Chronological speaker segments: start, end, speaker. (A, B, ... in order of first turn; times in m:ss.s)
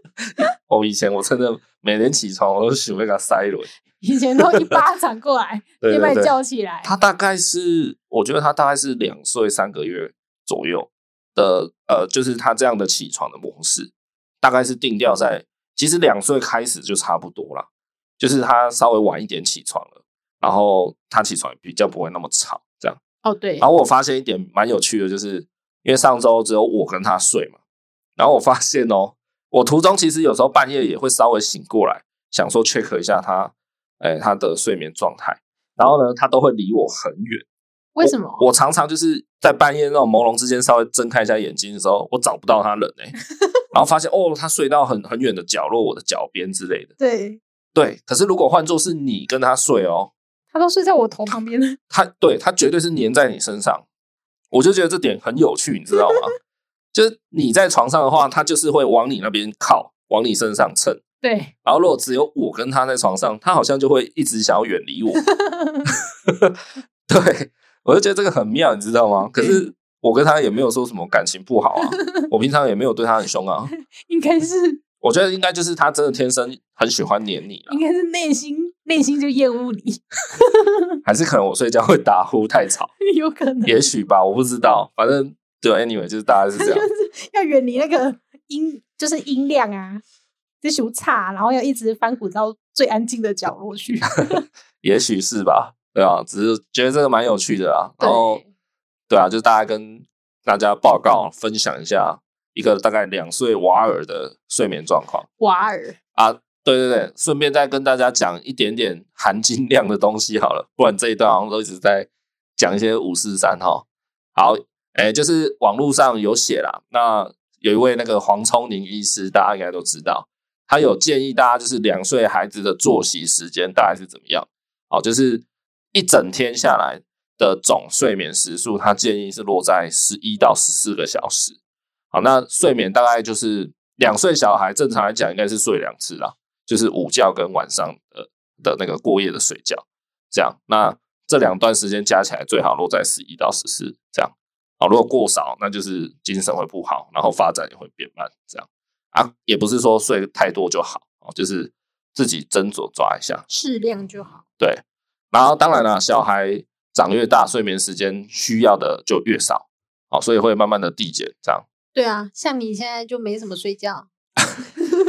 0:00.6-0:03.7 A
0:04.0-0:06.9 B
0:05.8-0:13.9 A
0:14.4-0:17.7 A
0:18.2-0:23.0 A
0:23.2-0:23.7 B
0:23.6-0:27.6 A
0:28.2-0:37.4 A
0:38.0-0:38.4 B
0:38.0-0:43.1 A
0:43.7-0:46.9 A
0:47.0-0:47.4 B
0:47.7-0:50.1 A
0:50.5-0:51.8 B
0:51.9-0:53.8 A
0:54.5-0:56.3 A
0:56.9-1:01.0 A
1:01.2-1:01.5 B
1:01.6-1:05.2 A
1:05.3-1:05.9 B
1:06.3-1:13.7 A
1:09.4-1:09.6 B
1:11.8-1:12.3 B
1:14.1-1:14.8 B
1:15.0-1:17.8 A
1:17.7-1:20.8 B
1:21.0-1:22.9 A
1:23.0-1:23.9 B
1:23.6-1:26.9 A
1:26.6-1:30.0 B
1:30.6-1:34.4 B
1:34.8-1:38.4 A
1:38.0-1:38.5 B
1:39.1-1:45.3 A
1:45.4-1:46.0 B
1:46.2-2:11.6 A
2:12.1-2:33.4 A
2:33.5-2:34.4 B
2:34.6-2:41.6 A
2:41.9-2:44.1 B